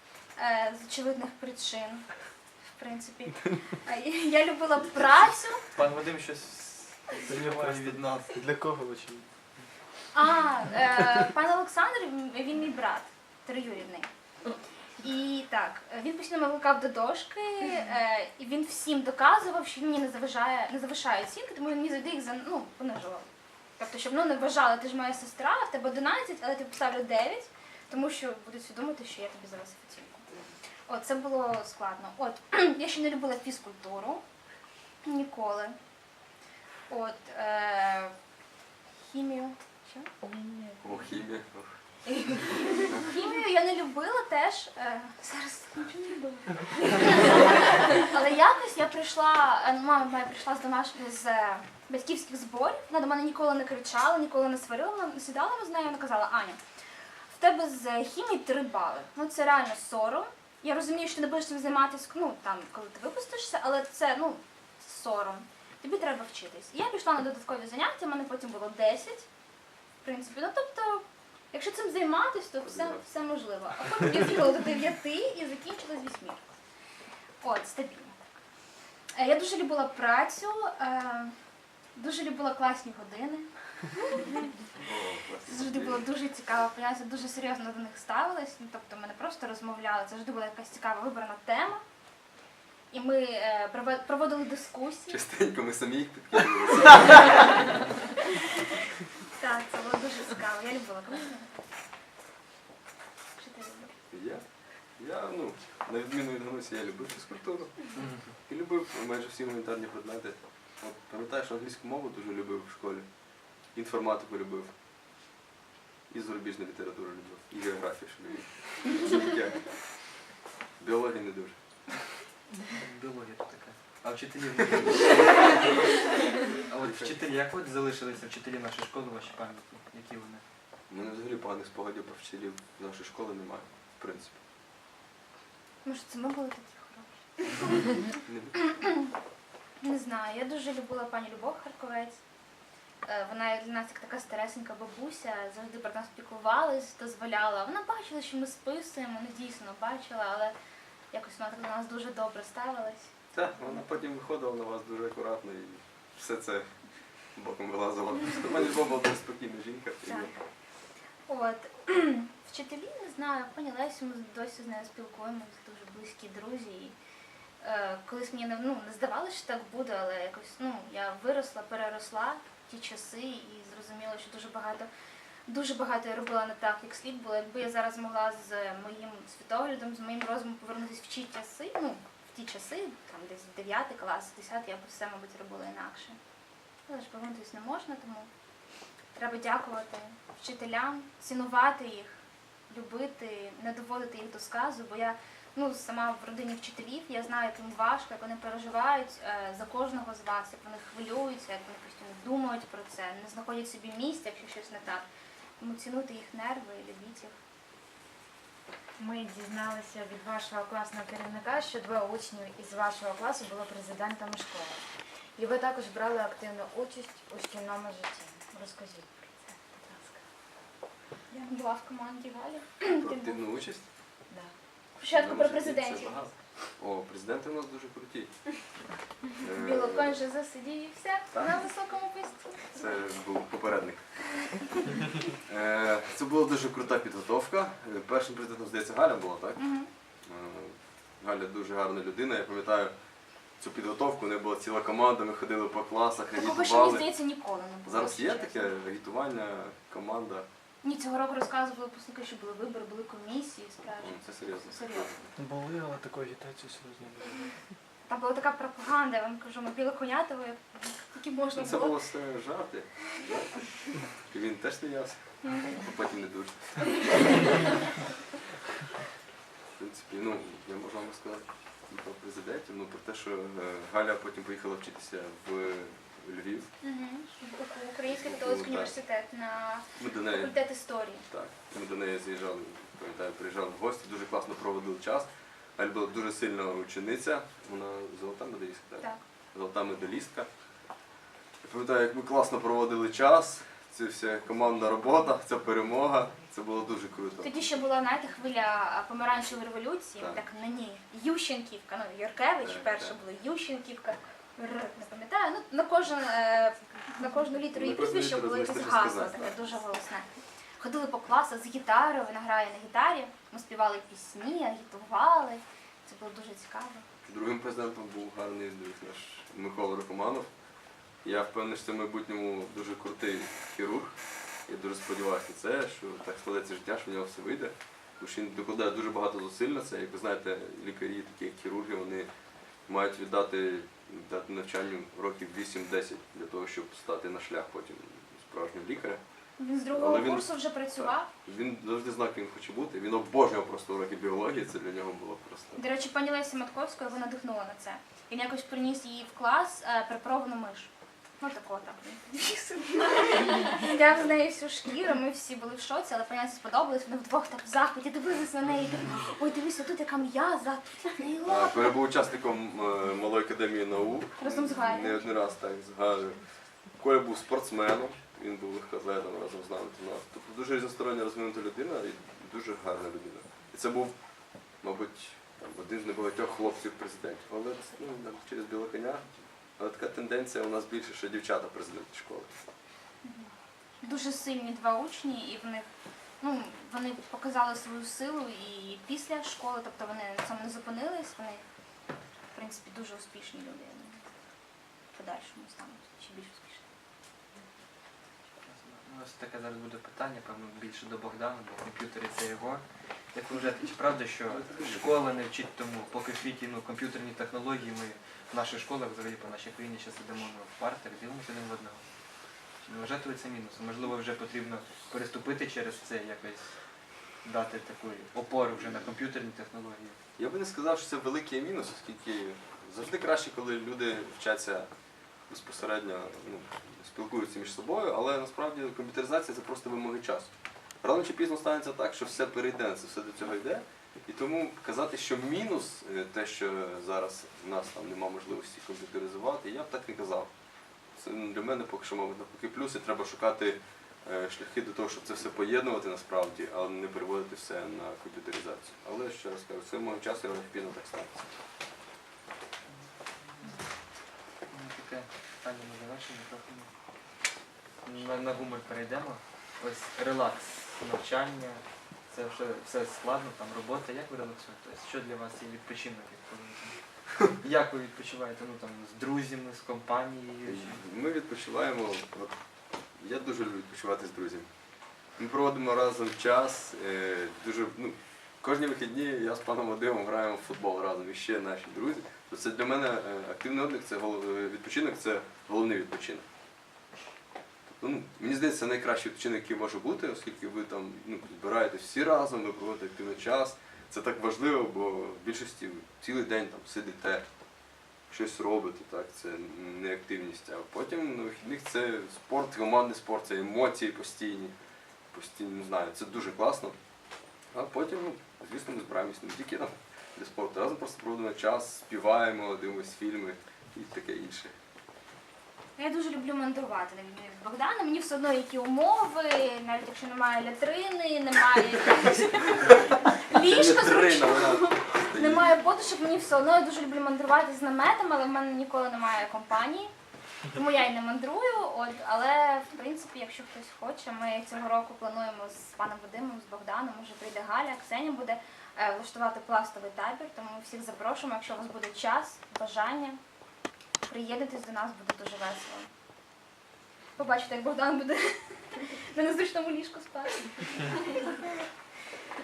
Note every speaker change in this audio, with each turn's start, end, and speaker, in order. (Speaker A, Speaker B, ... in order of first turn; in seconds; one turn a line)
Speaker A: 0.4-2.1
Speaker A: 2.7-5.7
Speaker B: 5.8-8.4
Speaker C: 7.2-9.3
Speaker A: 10.1-14.1
Speaker A: 15.0-23.3
Speaker A: 23.8-30.2
Speaker A: 30.9-34.2
Speaker A: 35.0-35.8
Speaker A: 36.9-38.1
Speaker A: 39.0-40.1
Speaker D: 40.2-41.0
Speaker E: 40.8-41.8
Speaker E: 42.5-43.0
Speaker A: 42.7-56.6
Speaker A: 57.3-69.3
Speaker A: 70.0-76.5
Speaker E: 72.7-73.0
Speaker A: 77.4-78.2
Speaker A: 79.2-81.3
Speaker A: 82.0-83.5
Speaker A: 84.0-84.5
Speaker E: 84.8-86.0
Speaker A: 85.5-91.8
Speaker A: 92.9-95.2
Speaker E: 95.1-97.5
Speaker A: 99.3-101.6
Speaker A: 103.4-104.0
Speaker E: 104.1-104.4
Speaker E: 105.0-107.8
Speaker B: 107.9-108.3
Speaker E: 108.5-113.1
Speaker E: 113.7-114.7
Speaker E: 116.1-120.1
Speaker E: 120.8-121.6
Speaker B: 122.7-130.4
Speaker E: 126.8-127.2
Speaker E: 130.9-134.4
Speaker A: 135.8-139.1
Speaker E: 138.2-138.6
Speaker A: 139.8-142.2
Speaker A: 143.1-150.5
Speaker A: 151.1-153.1
Speaker E: 153.3-156.7
Speaker E: 157.4-160.3
Speaker A: 160.1-160.3
Speaker A: 161.3-166.9
Speaker A: 167.6-174.9
Speaker A: 175.5-186.2
Speaker A: 186.9-188.3
Speaker A: 189.2-205.1
Speaker A: 205.6-207.3
Speaker D: 209.0-214.8
Speaker D: 215.4-220.2
Speaker A: 221.3-223.4
Speaker E: 222.9-223.8
Speaker D: 224.3-224.5
Speaker E: 225.0-228.6
Speaker A: 225.0-226.2
Speaker E: 229.4-230.2
Speaker A: 229.5-232.8
Speaker E: 231.3-231.6
Speaker E: 232.7-234.2
Speaker E: 235.5-239.6
Speaker A: 239.6-239.9
Speaker E: 240.2-242.9
Speaker E: 243.6-247.1
Speaker A: 246.3-248.7
Speaker E: 247.8-250.5
Speaker A: 250.8-255.2
Speaker E: 254.0-255.3
Speaker C: 255.4-257.6
Speaker A: 258.1-262.0
Speaker E: 261.6-266.9
Speaker A: 265.4-265.7
Speaker E: 269.8-276.7
Speaker A: 276.8-281.2
Speaker E: 278.1-278.9
Speaker E: 280.0-280.6
Speaker E: 281.3-290.5
Speaker E: 291.6-297.6
Speaker A: 297.4-310.3
Speaker E: 300.2-300.4
Speaker E: 302.6-303.2
Speaker E: 307.7-309.7
Speaker A: 310.8-317.1
Speaker E: 317.3-320.5
Speaker E: 321.2-332.3
Speaker E: 332.9-339.2
Speaker A: 339.6-341.3
Speaker E: 339.9-345.8
Speaker A: 345.8-362.0
Speaker E: 361.4-366.4
Speaker A: 364.4-365.3
Speaker E: 367.0-374.2
Speaker E: 374.8-379.2
Speaker E: 379.8-382.5
Speaker A: 383.2-383.5
Speaker A: 384.0-385.9
Speaker A: 386.4-391.6
Speaker A: 392.5-394.3
Speaker A: 395.1-396.9
Speaker B: 398.6-412.1
Speaker E: 404.5-405.3
Speaker B: 412.9-416.7
Speaker B: 417.4-420.2
Speaker E: 420.4-424.9
Speaker E: 425.5-440.5
Speaker E: 441.1-451.4
Speaker B: 452.9-453.8
Speaker B: 454.7-456.9
Speaker B: 458.1-471.0
Speaker E: 470.6-472.6
Speaker E: 473.1-474.7
Speaker E: 475.4-486.5
Speaker E: 487.9-497.4
Speaker E: 498.3-504.8
Speaker E: 505.3-507.0
Speaker E: 507.7-514.7
Speaker A: 516.0-530.1
Speaker E: 522.8-525.7
Speaker A: 530.7-543.4
Speaker A: 544.2-546.1
Speaker A: 547.4-551.9